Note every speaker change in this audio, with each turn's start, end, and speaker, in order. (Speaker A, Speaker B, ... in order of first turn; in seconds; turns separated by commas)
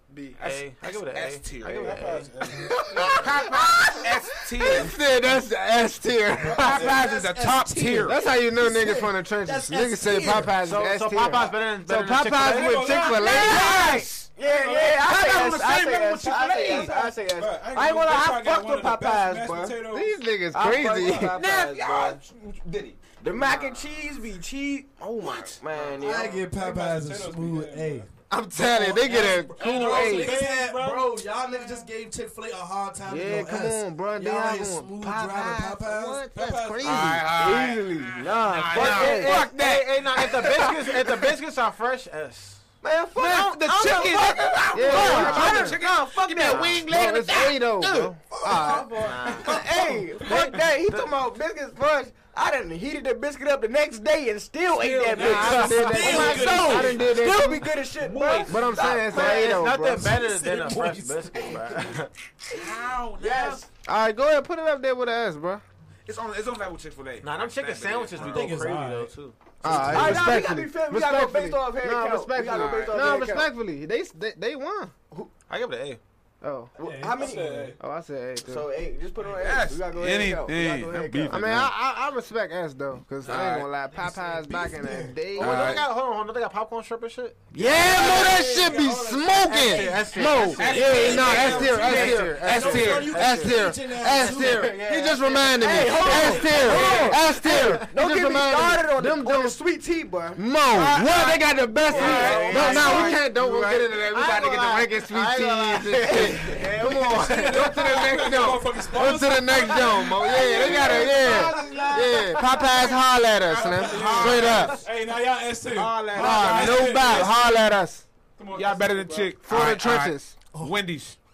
Speaker A: 0.4-2.1, Speaker B: 0.4-2.3, Speaker C: 1.6-3.3, Speaker D: 2.5-7.0, Speaker A: 3.1-5.0, Speaker C: 6.4-7.1, Speaker E: 6.4-10.6, Speaker A: 6.5-8.2, Speaker D: 8.0-13.8, Speaker B: 10.6-13.1, Speaker C: 12.4-13.7, Speaker A: 13.0-16.9, Speaker F: 13.1-19.8, Speaker C: 14.4-15.1, Speaker C: 16.6-21.3, Speaker D: 19.9-21.4, Speaker F: 20.5-22.2, Speaker A: 21.3-23.0, Speaker F: 23.2-26.4, Speaker D: 23.3-23.8, Speaker A: 25.2-25.9, Speaker E: 26.0-28.1, Speaker C: 26.0-28.1, Speaker D: 28.3-30.4, Speaker C: 28.7-31.9, Speaker E: 28.8-36.2, Speaker D: 33.0-37.3, Speaker C: 35.9-37.2, Speaker A: 36.8-41.1, Speaker F: 37.2-39.5, Speaker B: 38.7-42.6, Speaker F: 42.8-46.8, Speaker A: 43.1-48.1, Speaker D: 44.7-45.8, Speaker B: 44.9-45.4, Speaker D: 46.6-48.9, Speaker F: 48.5-59.6, Speaker B: 48.6-49.6, Speaker C: 54.8-55.7, Speaker A: 55.0-56.8, Speaker E: 55.1-57.1, Speaker D: 55.1-57.6, Speaker A: 57.9-59.3, Speaker D: 58.4-60.3, Speaker B: 59.1-62.1, Speaker E: 60.1-61.5, Speaker F: 61.3-61.7, Speaker A: 62.5-63.6, Speaker F: 63.2-63.7, Speaker D: 63.8-65.6, Speaker A: 66.0-68.6, Speaker B: 67.2-70.1, Speaker E: 68.1-69.1, Speaker D: 69.6-74.9, Speaker E: 69.6-70.4, Speaker F: 69.9-73.5, Speaker A: 69.9-70.3, Speaker A: 72.4-73.2, Speaker B: 75.5-76.0, Speaker D: 76.4-76.7, Speaker E: 76.8-77.7, Speaker F: 76.8-77.7, Speaker C: 77.2-77.8, Speaker D: 77.8-78.7, Speaker F: 78.4-81.5, Speaker A: 79.3-81.7, Speaker D: 81.3-85.8, Speaker A: 83.2-83.7, Speaker E: 83.3-85.2, Speaker B: 85.3-88.4, Speaker A: 85.4-85.8, Speaker D: 87.5-99.6, Speaker F: 87.6-88.3, Speaker A: 87.6-88.3, Speaker E: 87.9-94.8, Speaker C: 88.1-89.2, Speaker B: 89.4-97.9, Speaker A: 90.5-93.1, Speaker F: 95.6-103.2, Speaker E: 96.0-96.9, Speaker D: 100.3-114.8, Speaker B: 101.9-106.7, Speaker A: 101.9-103.2, Speaker F: 106.0-107.9, Speaker C: 107.0-111.4, Speaker A: 110.2-114.9, Speaker C: 113.5-117.5, Speaker A: 115.7-117.3, Speaker D: 116.1-118.0, Speaker C: 118.3-119.4, Speaker A: 118.5-121.2, Speaker D: 119.4-120.3